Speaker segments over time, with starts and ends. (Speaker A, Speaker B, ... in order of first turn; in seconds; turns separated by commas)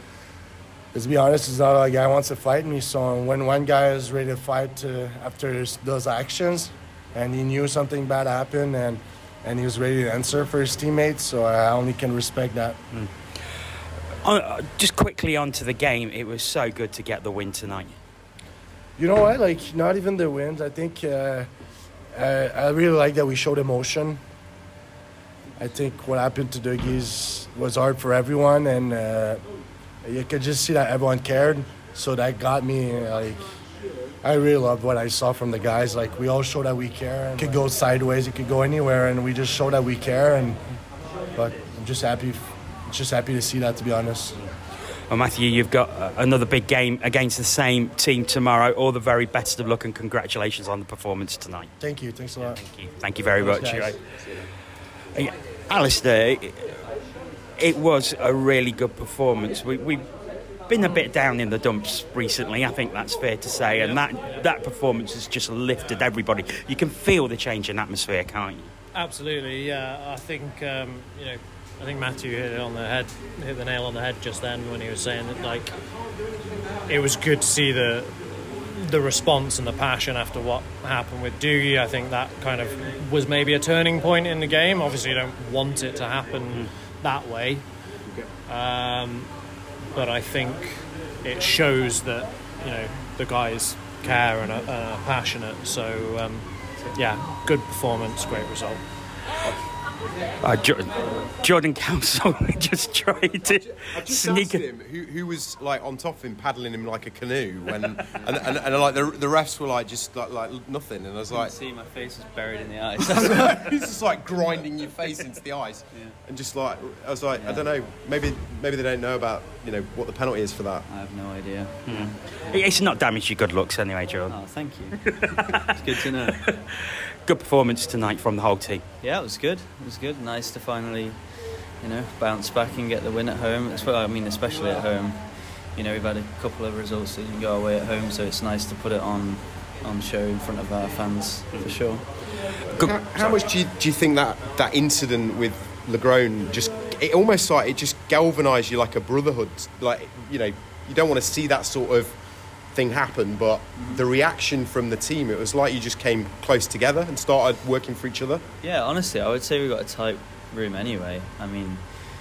Speaker A: 0.9-12.8, Speaker B: 14.2-17.9, Speaker A: 19.0-21.5, Speaker A: 22.1-24.2, Speaker A: 25.6-29.4, Speaker A: 30.0-33.4, Speaker A: 34.2-40.6, Speaker A: 41.4-44.4, Speaker B: 45.1-51.7, Speaker A: 51.8-52.6, Speaker B: 52.4-54.0, Speaker A: 53.4-54.4, Speaker B: 55.1-56.7, Speaker B: 57.6-60.0, Speaker B: 60.7-68.7, Speaker C: 63.8-64.1, Speaker C: 69.0-75.7, Speaker C: 76.9-87.7, Speaker C: 88.5-89.3, Speaker C: 90.0-98.8, Speaker B: 100.4-104.6, Speaker D: 103.5-111.5, Speaker E: 111.3-113.7, Speaker D: 113.1-120.8, Speaker E: 117.4-117.7, Speaker E: 120.9-122.1, Speaker B: 121.9-124.4, Speaker E: 124.3-125.0, Speaker B: 125.0-125.7, Speaker E: 125.6-126.4, Speaker B: 126.3-128.8, Speaker E: 129.0-131.2, Speaker E: 131.8-142.1, Speaker B: 142.7-143.4, Speaker D: 142.8-152.2, Speaker D: 152.7-158.4, Speaker E: 153.8-154.0, Speaker E: 158.6-161.8